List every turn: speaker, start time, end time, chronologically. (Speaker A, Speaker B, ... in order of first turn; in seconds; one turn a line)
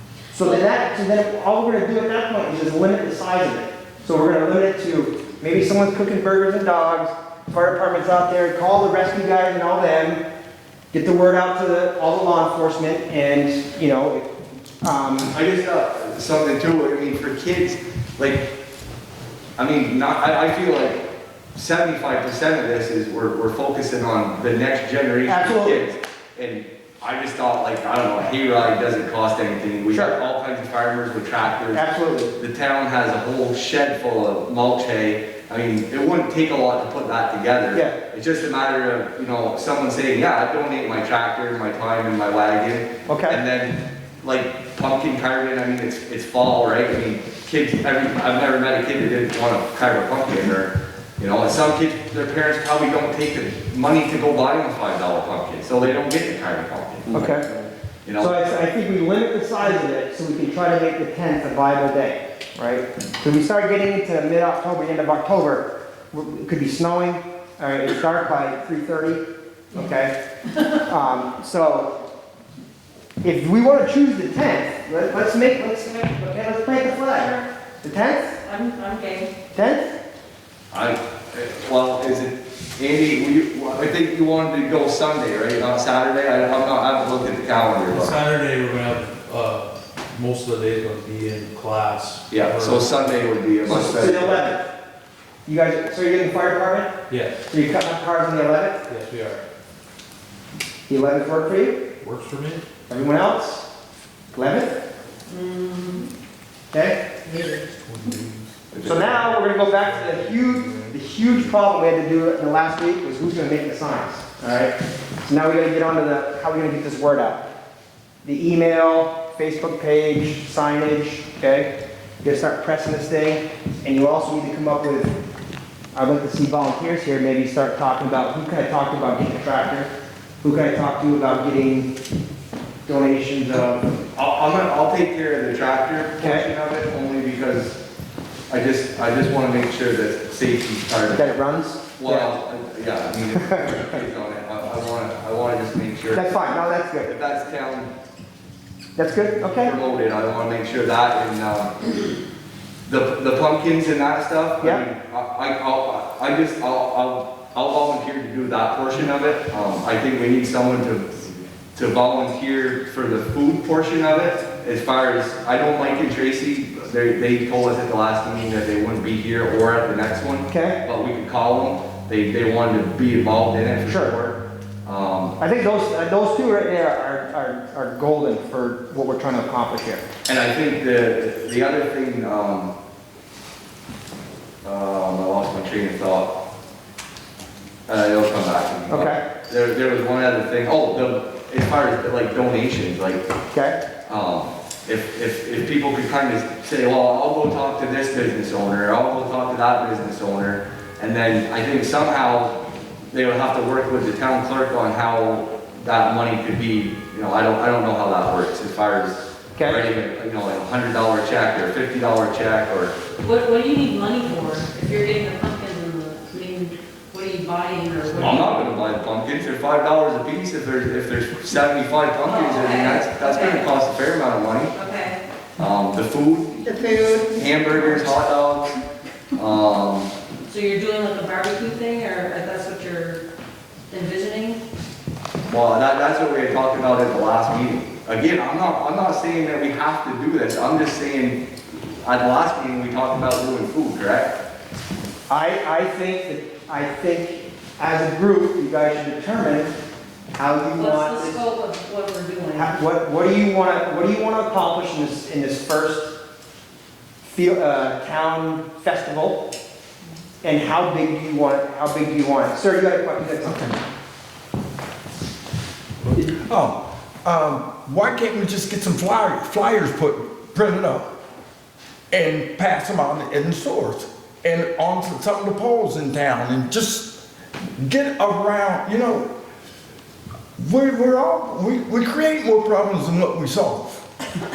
Speaker A: 0.3-10.2
Speaker A: 10.9-14.3
Speaker A: 14.8-15.3
Speaker B: 15.3-18.5
Speaker B: 19.6-31.8
Speaker A: 25.2-25.8
Speaker A: 29.9-30.2
Speaker A: 31.7-32.4
Speaker B: 32.4-58.3
Speaker A: 43.0-43.4
Speaker A: 57.1-57.4
Speaker A: 58.2-70.1
Speaker A: 70.8-71.9
Speaker A: 73.2-78.3
Speaker C: 78.4-79.3
Speaker A: 79.5-79.9
Speaker B: 80.7-88.2
Speaker D: 87.9-93.2
Speaker B: 92.3-94.4
Speaker A: 93.6-94.7
Speaker A: 95.5-97.0
Speaker D: 97.1-97.4
Speaker A: 97.5-98.8
Speaker D: 98.9-99.4
Speaker A: 100.9-101.8
Speaker D: 102.0-102.6
Speaker A: 102.9-103.7
Speaker A: 104.3-104.8
Speaker C: 105.3-106.1
Speaker A: 106.7-107.0
Speaker C: 107.2-107.6
Speaker D: 107.9-108.3
Speaker A: 108.8-117.5
Speaker A: 118.2-121.7
Speaker A: 122.2-125.1
Speaker A: 125.9-129.9
Speaker A: 130.4-131.9
Speaker A: 132.8-133.9
Speaker B: 134.1-137.8
Speaker A: 136.2-136.4
Speaker B: 138.5-141.3
Speaker A: 141.2-142.3
Speaker B: 141.9-146.4
Speaker A: 143.3-144.0
Speaker A: 146.1-147.1
Speaker B: 147.0-147.9
Speaker A: 148.9-149.7
Speaker B: 149.6-151.8
Speaker B: 152.9-175.4
Speaker A: 170.5-170.8
Speaker A: 173.9-174.2
Speaker A: 175.4-180.0
Speaker B: 180.2-182.7
Speaker B: 184.6-186.3
Speaker B: 187.9-193.2
Speaker A: 188.9-189.2
Speaker A: 193.5-193.8
Speaker B: 194.1-202.6
Speaker B: 203.1-213.0
Speaker A: 209.6-209.8
Speaker C: 213.2-218.7
Speaker B: 218.2-224.7
Speaker C: 222.2-223.7
Speaker C: 224.7-225.2
Speaker B: 225.6-226.7
Speaker C: 226.7-227.2
Speaker B: 227.3-228.7
Speaker B: 229.3-230.1
Speaker C: 230.5-233.2
Speaker C: 233.9-234.6
Speaker B: 235.5-241.4
Speaker B: 242.0-244.3
Speaker A: 245.3-249.8
Speaker A: 250.3-251.4
Speaker C: 250.7-252.8
Speaker A: 252.5-256.1
Speaker A: 257.2-259.5
Speaker A: 260.4-263.8
Speaker E: 263.4-263.8
Speaker E: 266.1-271.1
Speaker E: 272.1-277.2
Speaker E: 277.8-279.3
Speaker E: 280.6-284.1